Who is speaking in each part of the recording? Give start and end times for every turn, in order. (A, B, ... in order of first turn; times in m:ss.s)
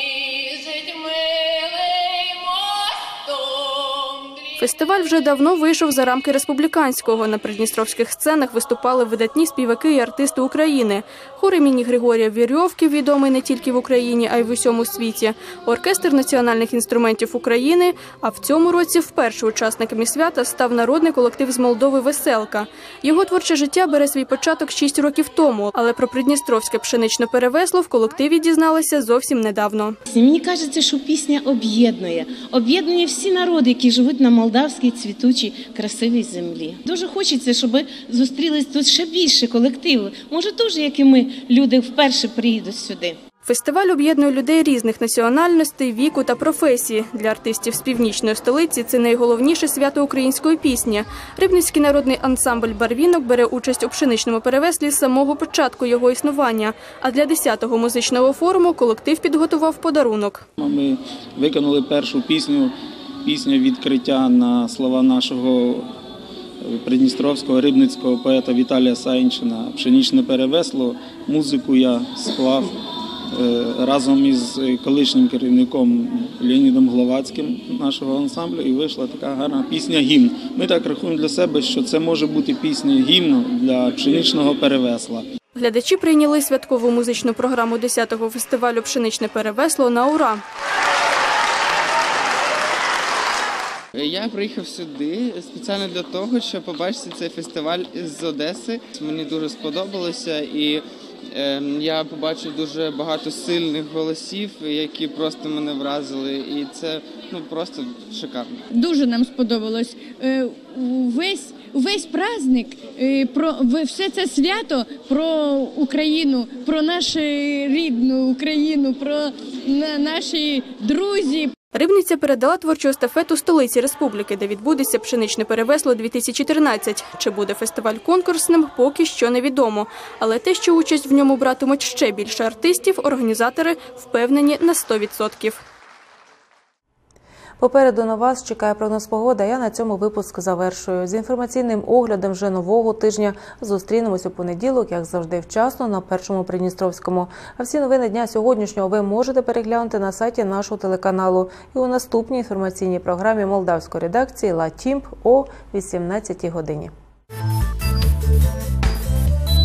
0:04.5-0:30.0 A
0:30.1-0:43.2 B
0:43.4-1:00.4 A
1:00.6-1:02.7 C
1:03.2-1:05.8 C
1:06.6-1:12.7 C
1:13.3-1:25.2 C
1:25.6-1:30.4 A
1:34.0-1:48.6 D
1:48.7-2:01.5 E
2:01.7-2:15.6 A
2:17.6-2:36.9 F